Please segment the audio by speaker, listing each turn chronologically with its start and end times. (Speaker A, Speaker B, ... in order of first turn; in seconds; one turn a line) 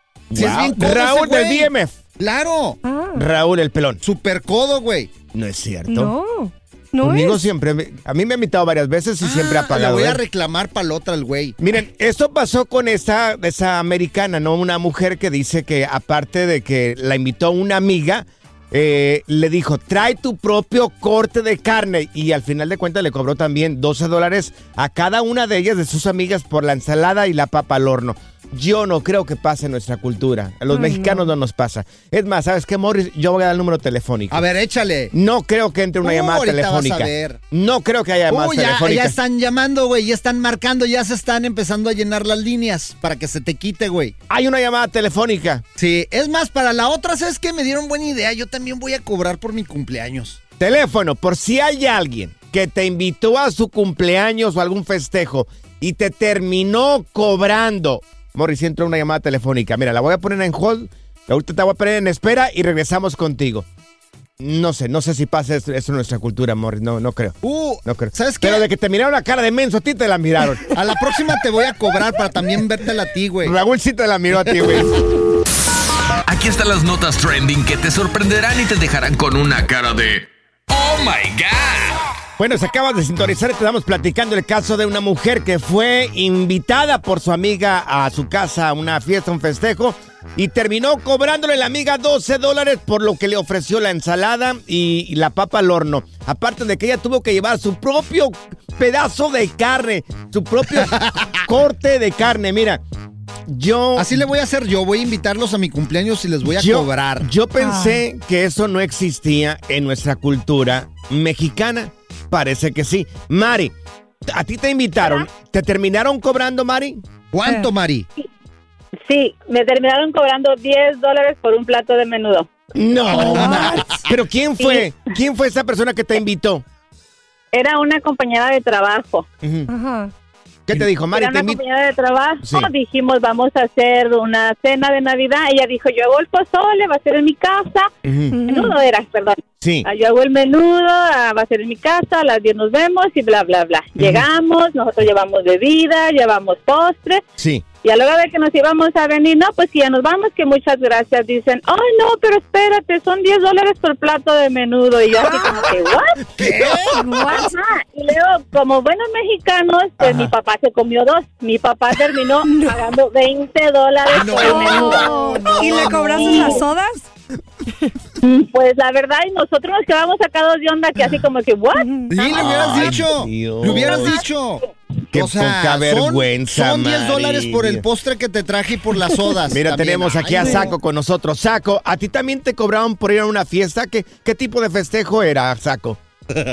Speaker A: 0.3-2.0
Speaker B: 0.3-2.8
Speaker C: 2.8-3.2
Speaker A: 3.1-4.0
Speaker B: 4.0-5.1
Speaker A: 5.3-6.1
Speaker C: 5.9-7.4
Speaker A: 7.0-10.2
Speaker B: 9.2-11.6
Speaker A: 11.6-34.4
Speaker C: 30.7-31.2
Speaker B: 34.3-35.1
Speaker A: 35.1-39.2
Speaker B: 36.0-37.4
Speaker B: 38.3-44.1
Speaker A: 44.3-45.6
Speaker B: 45.8-50.4
Speaker A: 50.6-63.6
Speaker A: 64.4-70.7
Speaker B: 67.4-68.7
Speaker B: 70.7-73.5
Speaker A: 73.4-74.9
Speaker D: 76.2-82.0
Speaker A: 82.4-102.8
Speaker B: 100.8-101.3
Speaker A: 103.5-104.1
Speaker B: 104.0-107.3
Speaker A: 106.4-113.7
Speaker C: 107.6-108.0
Speaker A: 114.3-117.0
Speaker B: 117.3-118.1
Speaker E: 119.0-122.5
Speaker A: 122.7-126.6
Speaker C: 123.1-124.0
Speaker B: 123.1-124.0
Speaker E: 124.6-124.9
Speaker E: 127.5-129.2
Speaker A: 129.4-129.7
Speaker C: 129.7-130.1
Speaker A: 130.7-131.6
Speaker E: 131.1-137.9
Speaker A: 132.4-132.7
Speaker A: 138.0-138.4
Speaker C: 138.3-138.8
Speaker E: 138.4-147.2
Speaker A: 139.6-139.9
Speaker A: 144.0-144.3
Speaker A: 147.4-147.6
Speaker E: 147.8-156.2
Speaker C: 155.2-155.7
Speaker B: 156.4-157.0
Speaker C: 156.9-157.4
Speaker E: 157.1-166.6
Speaker A: 160.0-160.3
Speaker C: 162.4-162.8
Speaker B: 164.1-166.6
Speaker C: 164.4-167.1
Speaker E: 168.2-172.5
Speaker C: 171.7-172.1
Speaker B: 172.1-174.6
Speaker A: 172.3-174.2
Speaker A: 175.1-177.8
Speaker B: 175.1-180.7
Speaker A: 179.5-186.0
Speaker C: 180.4-180.7